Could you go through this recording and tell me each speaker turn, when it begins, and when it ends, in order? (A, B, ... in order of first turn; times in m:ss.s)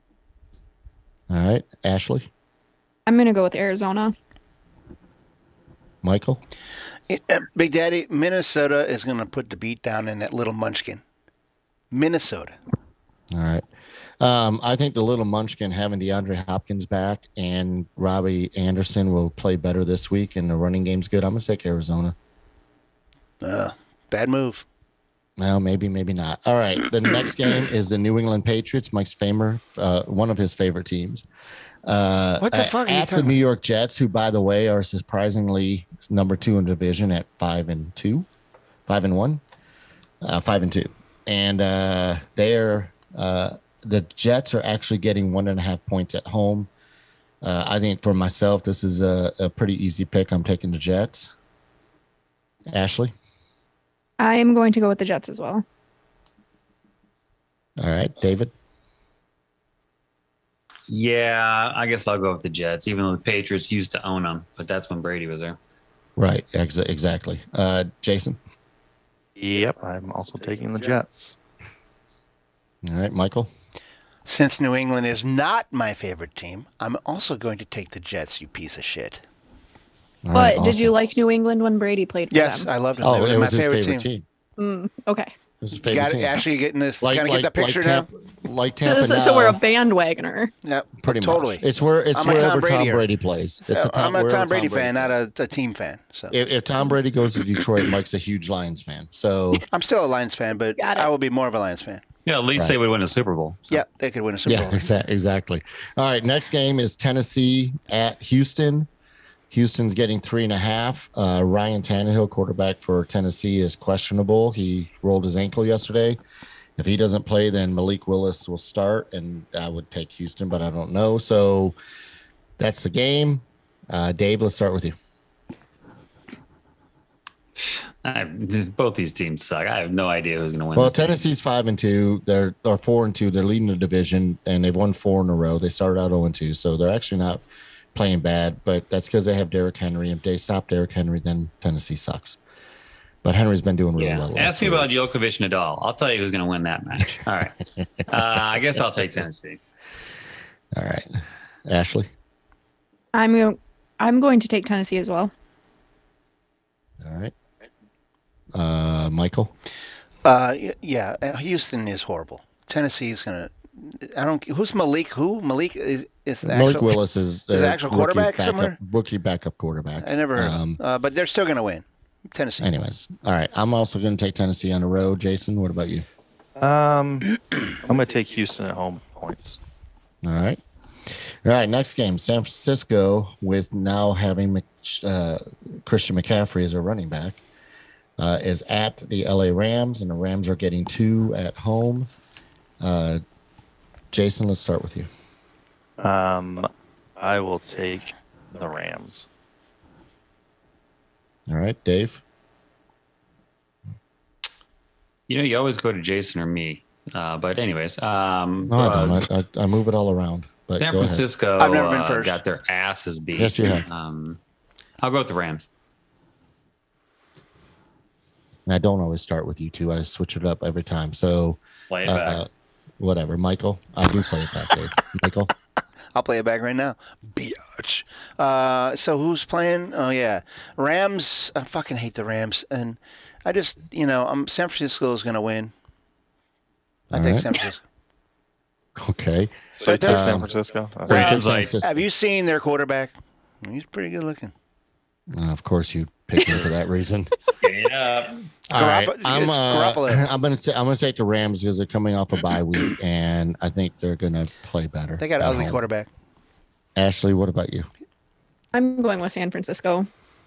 0:01.3-0:02.3 A
0:03.1-0:04.1 B
0:06.0-0:06.4 A
0:07.1-0:11.0 C
0:11.9-0:12.6 C
0:13.3-0:13.6 A
0:14.2-0:22.1 A
0:23.4-0:24.6 C
0:25.4-0:31.2 A
0:31.8-0:38.3 A
0:32.4-0:33.4 C
0:38.9-0:39.4 A
0:40.2-0:46.7 A
0:47.4-0:51.3 A
0:52.7-0:53.1 A
0:54.2-0:55.6 B
0:57.8-0:58.5 A
1:00.9-1:05.6 D
1:06.2-1:08.4 A
1:09.4-1:11.4 E
1:12.8-1:13.5 A
1:14.2-1:19.2 C
1:20.2-1:21.0 A
1:20.3-1:22.7 B
1:22.3-1:24.0 C
1:23.0-1:24.2 A
1:24.6-1:25.3 B
1:25.6-1:26.4 A
1:25.9-1:28.1 C
1:27.0-1:29.6 A
1:28.8-1:30.5 B
1:30.6-1:33.0 C
1:31.0-1:35.1 A
1:33.7-1:36.3 C
1:36.3-1:39.6 A
1:39.7-1:42.0 C
1:40.8-1:41.1 B
1:42.2-1:43.8 D
1:43.7-1:44.9 C
1:44.4-1:48.9 A
1:49.5-1:56.2 A
1:56.8-2:01.8 A
2:02.6-2:05.0 A
2:07.6-2:11.1 D
2:10.8-2:17.4 A
2:17.9-2:22.4 A
2:23.2-2:25.0 A
2:24.0-2:29.6 D
2:30.7-2:32.1 A
2:33.1-2:35.3 B
2:37.0-2:37.3 A
2:38.5-2:39.5 A
2:40.2-2:47.0 C
2:46.4-2:50.8 A
2:47.5-2:48.8 C
2:50.0-2:52.7 C
2:52.6-2:56.0 A
2:56.6-2:57.3 E
2:57.8-2:59.6 E
3:00.2-3:00.6 A
3:01.4-3:07.4 A
3:08.2-3:12.1 A
3:12.8-3:13.2 A
3:14.1-3:15.1 A
3:16.0-3:19.3 E
3:21.5-3:22.2 A
3:25.3-3:29.2 D
3:28.7-3:31.2 A
3:30.8-3:34.4 D
3:31.6-3:32.4 C
3:33.4-3:33.8 A
3:35.0-3:35.7 D
3:38.6-3:42.5 A
3:41.9-3:42.4 D
3:43.0-3:45.5 A
3:46.1-3:55.7 C
3:57.1-3:57.8 C
3:57.1-3:57.5 A
3:59.0-4:00.5 A
3:59.8-4:01.3 E
3:59.8-4:00.2 C
4:01.0-4:02.0 A
4:01.1-4:01.7 D
4:01.2-4:04.5 C
4:05.3-4:07.3 A
4:07.6-4:08.4 D
4:08.7-4:15.8 A
4:08.7-4:10.2 C
4:15.2-4:16.1 C
4:17.0-4:17.9 A
4:18.7-4:20.1 B